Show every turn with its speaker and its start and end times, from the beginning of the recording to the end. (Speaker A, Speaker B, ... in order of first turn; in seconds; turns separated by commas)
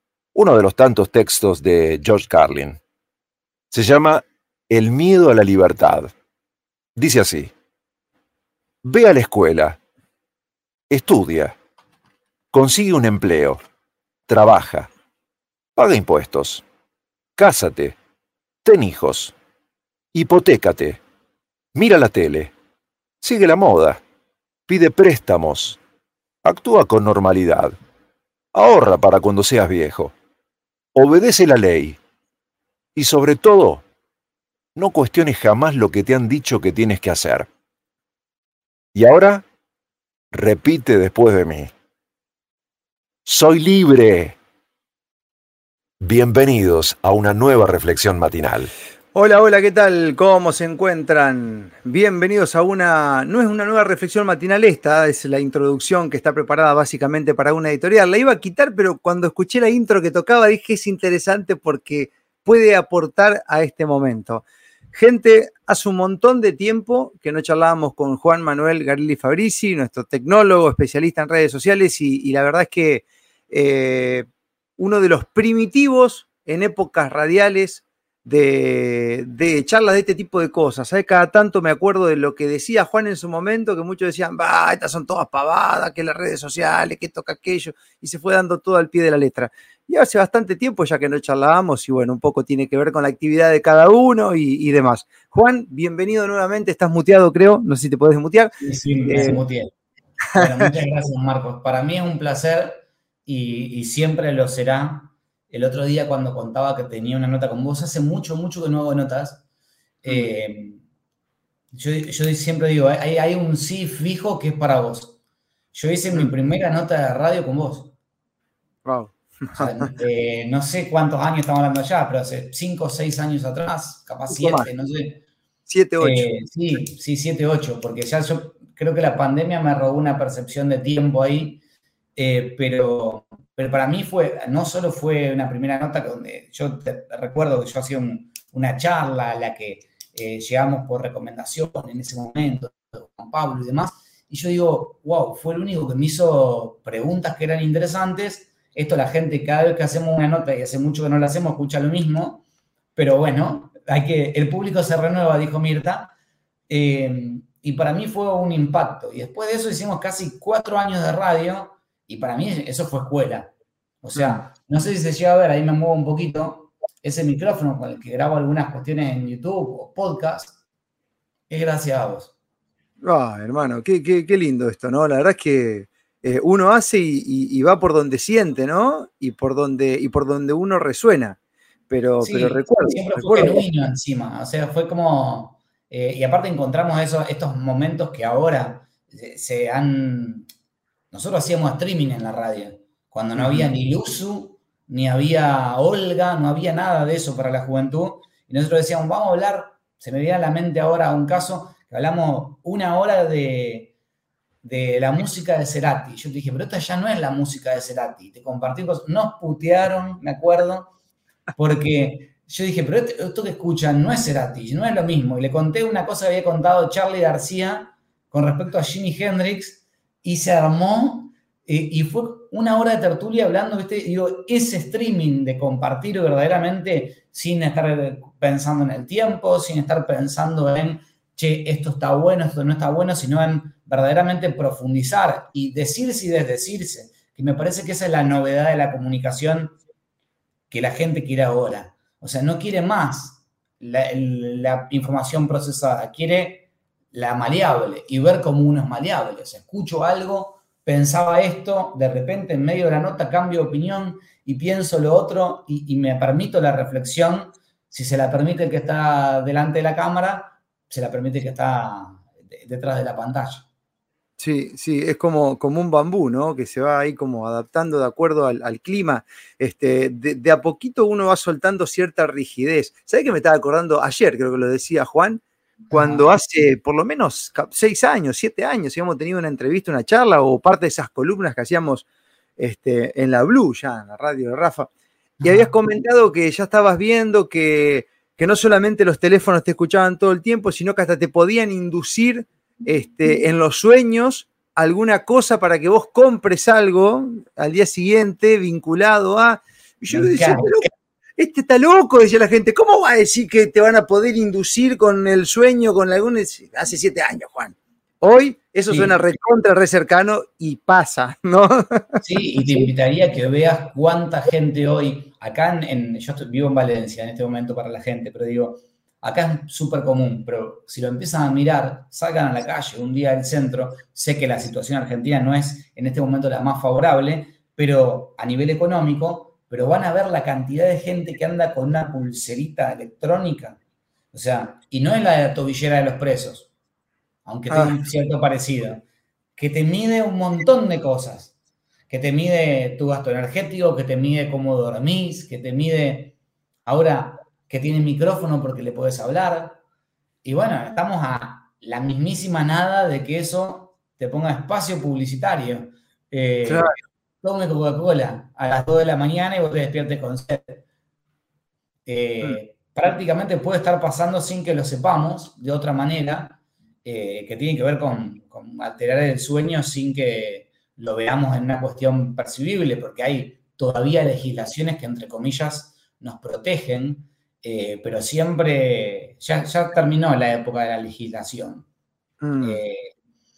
Speaker A: 0.3-2.8, Speaker A: 3.7-6.1, Speaker A: 7.0-7.5, Speaker A: 8.8-9.8, Speaker A: 10.9-11.5, Speaker A: 12.5-13.6, Speaker A: 14.3-14.9, Speaker A: 15.8-16.6, Speaker A: 17.4-17.9, Speaker A: 18.6-19.3, Speaker A: 20.1-21.0, Speaker A: 21.7-22.5, Speaker A: 23.2-24.0, Speaker A: 24.7-25.8, Speaker A: 26.4-27.8, Speaker A: 28.5-30.1, Speaker A: 30.9-32.0, Speaker A: 33.0-33.8, Speaker A: 34.8-37.5, Speaker A: 39.0-39.4, Speaker A: 40.3-41.7, Speaker A: 43.3-44.4, Speaker A: 46.0-48.7, Speaker B: 49.1-74.3, Speaker B: 74.8-98.5, Speaker C: 98.6-99.7, Speaker B: 99.1-99.4, Speaker C: 100.3-109.4, Speaker C: 110.0-110.8, Speaker C: 111.7-115.2, Speaker C: 115.7-117.9, Speaker B: 118.8-119.9, Speaker C: 119.5-125.2, Speaker B: 124.3-124.7, Speaker B: 125.7-126.3, Speaker C: 126.0-131.6, Speaker C: 132.2-152.4, Speaker C: 152.9-156.1, Speaker C: 156.7-163.5, Speaker C: 164.0-170.6, Speaker B: 164.2-164.4, Speaker C: 171.5-172.3, Speaker B: 173.0-181.4, Speaker B: 181.9-183.6, Speaker C: 182.2-190.5, Speaker C: 191.1-203.9, Speaker B: 193.4-193.7, Speaker C: 204.6-210.9, Speaker C: 211.6-239.8, Speaker C: 240.7-263.7, Speaker B: 264.4-282.1, Speaker C: 275.9-276.3, Speaker B: 282.6-312.2, Speaker C: 285.4-285.7, Speaker C: 300.1-300.9, Speaker C: 308.9-309.2, Speaker C: 312.2-333.8, Speaker C: 334.3-336.7, Speaker C: 337.4-339.0, Speaker B: 337.7-337.9, Speaker C: 339.6-341.5, Speaker C: 342.1-346.3, Speaker C: 346.9-349.8, Speaker C: 350.4-360.8, Speaker B: 356.6-356.9, Speaker C: 362.1-381.9, Speaker B: 382.4-382.8, Speaker C: 382.6-383.1